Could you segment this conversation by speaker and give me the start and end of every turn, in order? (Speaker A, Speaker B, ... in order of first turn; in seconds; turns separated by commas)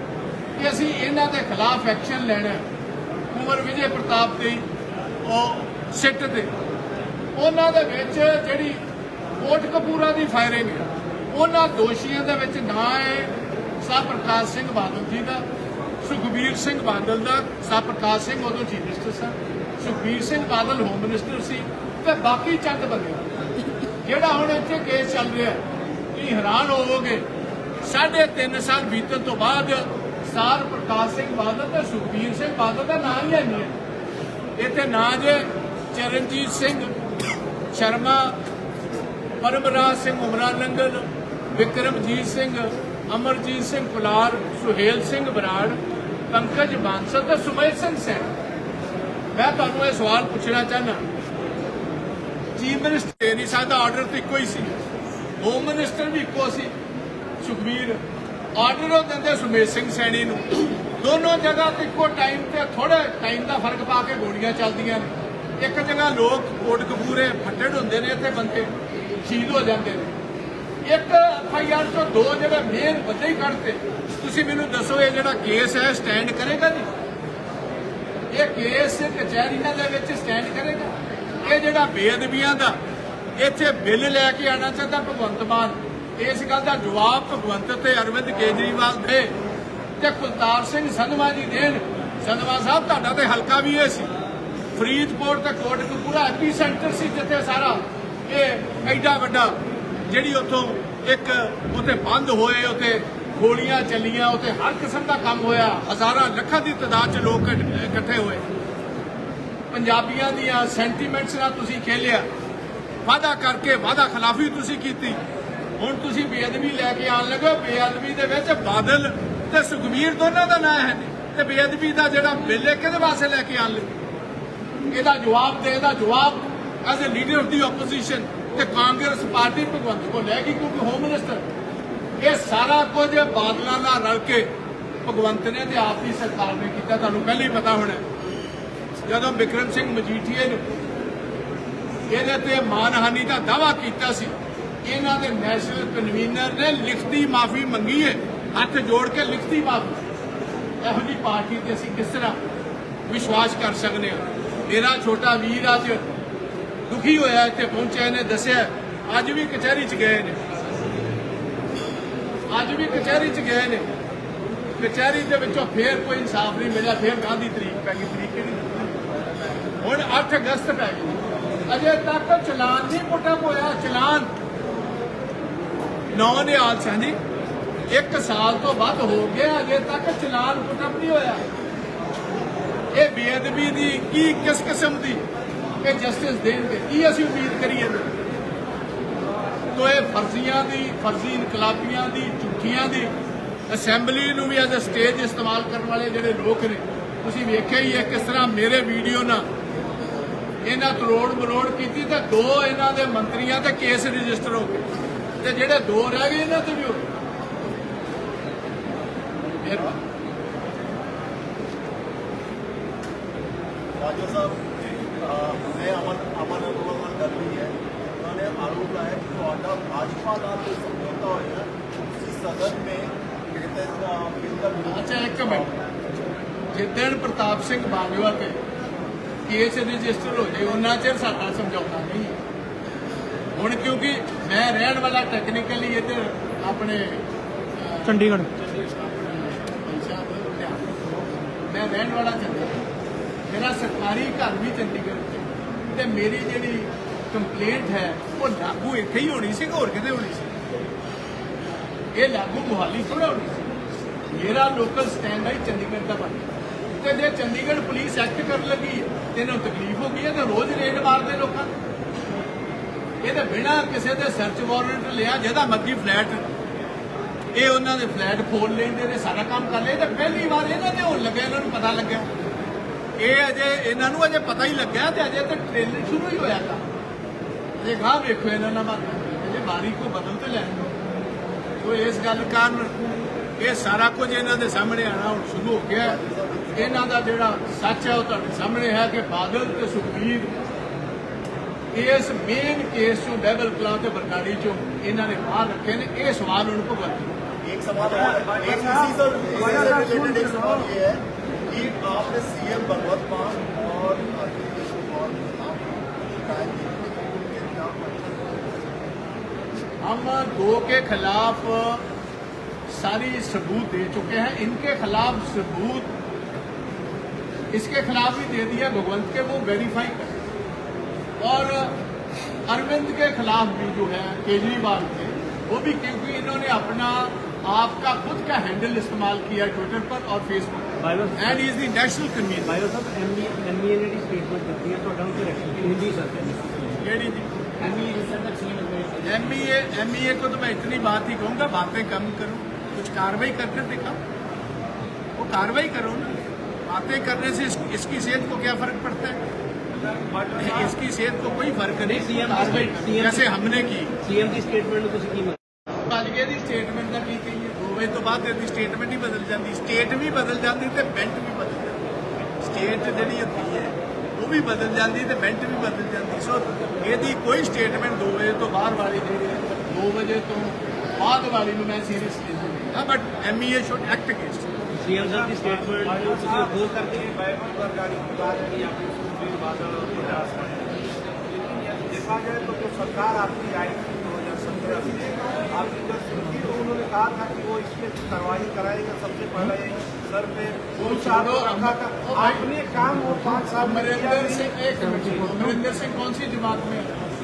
Speaker A: 0.6-2.7, Speaker A: 3.3-4.6, Speaker A: 5.2-6.5, Speaker A: 7.3-8.8, Speaker A: 9.4-15.4, Speaker A: 16.0-23.2, Speaker A: 24.0-25.6, Speaker A: 26.1-27.3, Speaker A: 27.8-33.8, Speaker A: 34.6-36.9, Speaker A: 37.7-38.4, Speaker A: 39.4-45.8, Speaker A: 46.3-48.3, Speaker A: 49.3-51.0, Speaker A: 52.5-54.8, Speaker A: 55.4-56.7, Speaker A: 57.4-58.0, Speaker A: 58.5-70.1, Speaker A: 70.8-76.9, Speaker A: 78.3-82.8, Speaker A: 83.4-89.3, Speaker A: 90.0-94.1, Speaker A: 94.7-99.5, Speaker A: 100.1-108.4, Speaker A: 109.7-112.3, Speaker A: 113.0-115.2, Speaker A: 115.8-124.0, Speaker A: 124.9-131.4, Speaker A: 132.2-134.5, Speaker A: 135.0-138.0, Speaker A: 139.1-140.6, Speaker A: 142.1-150.0, Speaker A: 150.8-152.4, Speaker A: 153.1-156.1, Speaker A: 156.9-160.4, Speaker A: 162.5-163.9, Speaker A: 164.8-174.3, Speaker A: 176.1-177.2, Speaker A: 177.9-181.4, Speaker A: 182.9-185.2, Speaker A: 185.8-188.1, Speaker A: 189.7-193.1, Speaker A: 193.7-199.4, Speaker A: 200.6-204.9, Speaker A: 205.4-207.1, Speaker A: 209.6-210.0, Speaker B: 214.0-214.7, Speaker B: 215.2-225.8, Speaker A: 224.9-225.7, Speaker A: 226.7-228.6, Speaker A: 229.5-232.4, Speaker A: 233.6-240.9, Speaker A: 241.7-242.8, Speaker A: 243.5-250.5, Speaker A: 252.1-253.6, Speaker A: 254.3-261.7, Speaker A: 263.2-266.5, Speaker A: 267.5-272.3, Speaker A: 273.2-276.8, Speaker A: 277.8-280.9, Speaker A: 281.8-282.9, Speaker A: 283.6-286.2, Speaker B: 286.0-287.1, Speaker A: 286.7-290.5, Speaker A: 291.9-297.4, Speaker B: 297.6-308.8, Speaker C: 298.1-300.9, Speaker A: 310.0-312.0, Speaker A: 312.9-316.1, Speaker A: 317.7-320.4, Speaker A: 321.4-322.0, Speaker A: 322.7-332.8, Speaker D: 331.0-331.6, Speaker D: 332.6-337.0, Speaker A: 337.0-337.5, Speaker D: 337.8-339.2, Speaker A: 339.2-344.2, Speaker A: 345.4-346.4, Speaker A: 346.9-349.4, Speaker C: 350.1-350.9, Speaker A: 350.5-354.1, Speaker D: 352.0-353.5, Speaker D: 354.2-355.6, Speaker A: 356.1-362.0, Speaker A: 362.6-374.7, Speaker D: 375.0-377.3, Speaker C: 375.1-380.9, Speaker C: 381.5-394.8, Speaker A: 391.0-392.7, Speaker A: 393.6-397.2